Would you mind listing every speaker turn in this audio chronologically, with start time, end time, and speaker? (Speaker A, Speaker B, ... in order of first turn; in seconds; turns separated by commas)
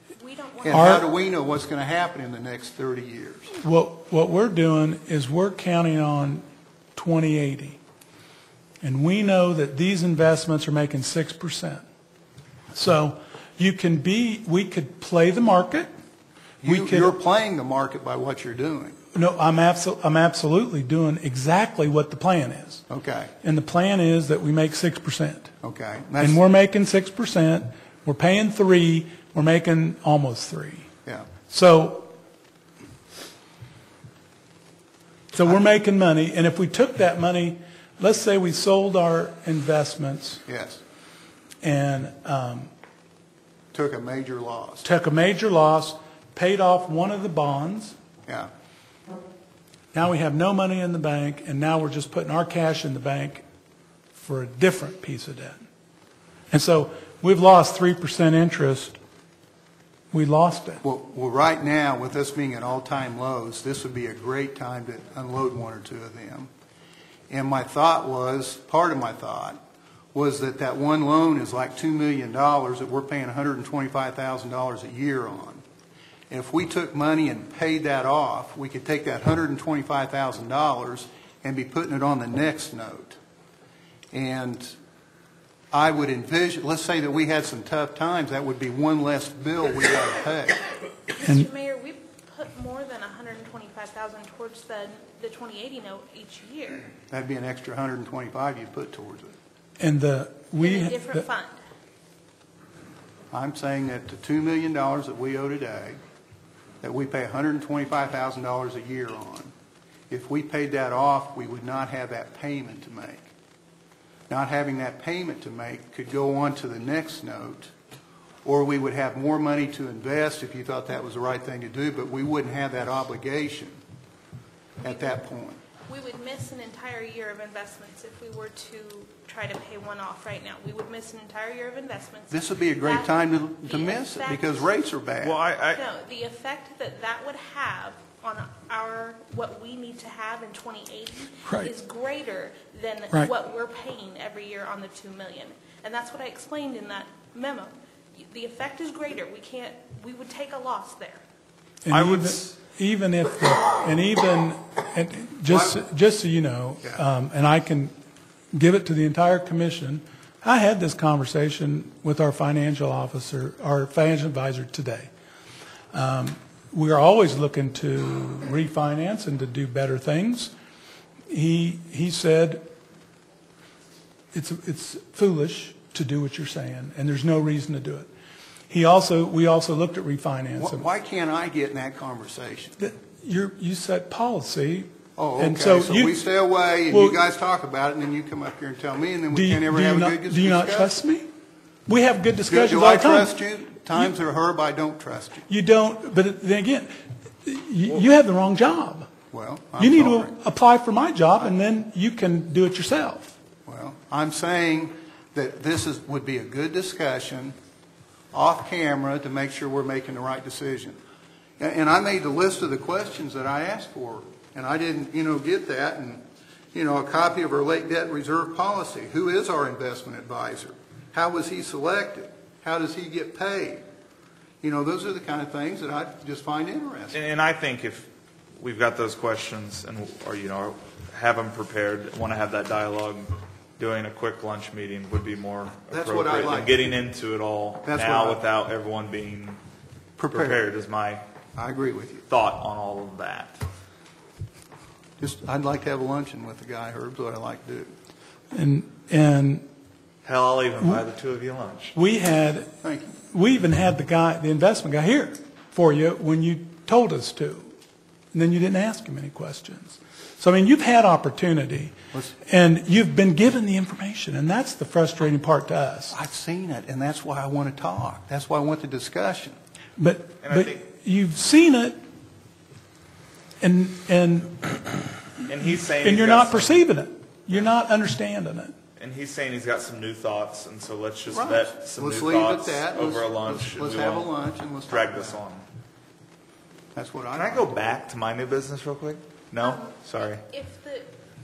Speaker A: 0.2-1.1, Speaker B: 0.6-3.5, Speaker C: 0.7-1.0, Speaker C: 3.6-6.4, Speaker C: 7.0-7.8, Speaker C: 8.8-11.8, Speaker C: 12.7-15.9, Speaker B: 16.6-19.0, Speaker C: 16.6-17.1, Speaker C: 19.1-22.8, Speaker B: 22.9-23.3, Speaker C: 23.4-25.5, Speaker B: 25.6-26.4, Speaker C: 26.2-30.9, Speaker C: 31.5-32.1, Speaker C: 35.3-40.4, Speaker B: 40.5-40.8, Speaker C: 41.6-42.7, Speaker B: 43.7-44.8, Speaker C: 44.8-47.9, Speaker C: 49.9-53.4, Speaker C: 54.2-55.6, Speaker C: 56.5-59.0, Speaker C: 60.1-60.8, Speaker B: 60.8-66.5, Speaker B: 67.3-69.6, Speaker B: 70.1-75.6, Speaker B: 76.3-83.2, Speaker B: 84.1-84.8, Speaker B: 85.7-90.6, Speaker A: 91.1-96.9, Speaker B: 97.1-99.3, Speaker C: 99.8-101.2, Speaker A: 100.6-101.6, Speaker B: 103.3-106.0, Speaker B: 106.8-109.5, Speaker B: 110.1-113.3, Speaker B: 114.3-117.7, Speaker B: 118.4-123.8, Speaker A: 124.8-125.2, Speaker B: 124.8-125.6, Speaker A: 125.9-134.7, Speaker B: 132.3-135.4, Speaker D: 135.2-135.8, Speaker A: 135.7-151.2, Speaker C: 141.4-141.7, Speaker C: 151.8-157.9, Speaker D: 151.9-152.5, Speaker C: 158.5-165.1, Speaker C: 165.9-170.5, Speaker C: 171.3-172.6, Speaker C: 174.3-178.1, Speaker C: 178.7-180.8, Speaker B: 180.6-182.8, Speaker C: 182.8-186.2, Speaker B: 185.2-191.0, Speaker C: 186.9-187.2, Speaker C: 189.3-191.2, Speaker C: 191.9-193.3, Speaker B: 192.5-195.5, Speaker C: 195.5-196.9, Speaker C: 197.4-199.1, Speaker B: 199.3-200.3, Speaker C: 199.8-203.3, Speaker B: 203.7-207.5, Speaker B: 208.3-211.0, Speaker B: 211.6-216.2, Speaker B: 216.7-223.8, Speaker B: 224.6-227.2, Speaker D: 227.1-239.6, Speaker B: 235.9-237.0, Speaker B: 237.8-238.4, Speaker B: 240.2-240.6, Speaker D: 240.3-241.2, Speaker B: 241.6-242.2, Speaker D: 242.3-243.6, Speaker B: 245.2-247.9, Speaker C: 248.5-249.6, Speaker D: 250.2-251.9, Speaker C: 251.9-252.7, Speaker B: 252.8-253.2, Speaker C: 253.2-257.7, Speaker C: 258.3-261.9, Speaker C: 262.5-266.1, Speaker B: 266.1-269.6, Speaker C: 270.0-272.0, Speaker D: 270.4-270.8, Speaker C: 273.6-275.1, Speaker D: 275.4-276.8, Speaker C: 276.0-278.7, Speaker D: 279.0-284.3, Speaker B: 281.3-285.4, Speaker D: 284.9-285.6, Speaker B: 286.9-287.8, Speaker D: 287.3-290.4, Speaker A: 289.6-291.1